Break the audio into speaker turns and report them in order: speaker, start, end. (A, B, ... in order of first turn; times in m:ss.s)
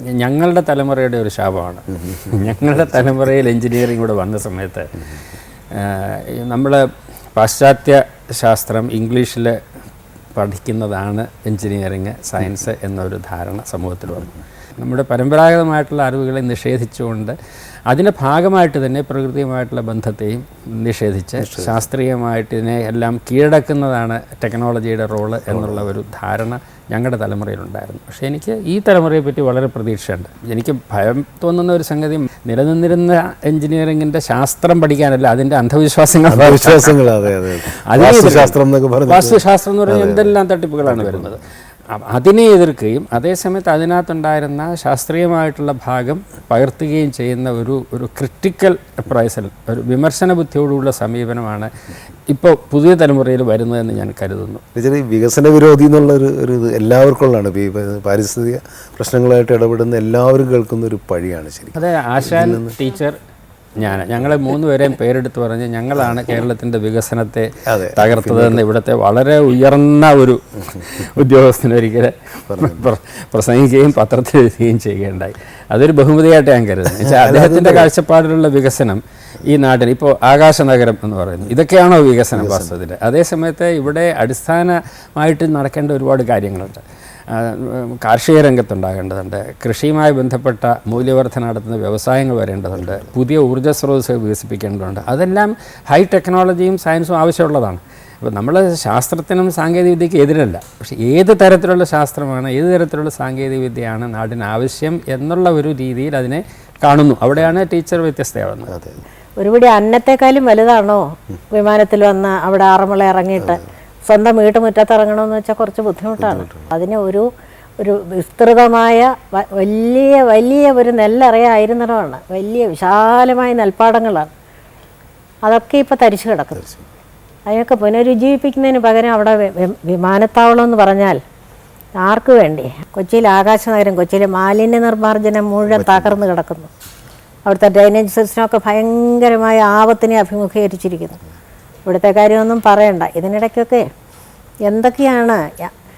0:00.2-0:04.9 A
0:05.7-0:06.8 A
0:07.4-0:09.6 A
0:10.4-0:17.4 A
0:17.9-0:37.0 A
0:21.4-0:21.8 B
0:25.5-0:25.9 B
0:36.3-0:41.3 B
0:37.7-0:51.7 A
0:52.3-0:54.6 A
0:54.8-1:02.8 B
1:01.8-1:03.2 A
1:03.8-1:48.7 A
1:07.6-1:08.6 B
1:12.5-1:12.9 B
1:17.0-1:17.9 B
1:22.4-1:22.8 B
1:48.7-1:49.0 B
1:49.4-1:57.2 C
1:56.2-1:56.7 B
1:57.8-2:04.3 C
2:05.4-2:06.7 C
2:07.5-2:11.2 C
2:12.0-2:16.7 C
2:15.7-2:16.2 B
2:17.5-2:21.2 C
2:21.8-2:23.8 C
2:24.7-2:25.7 C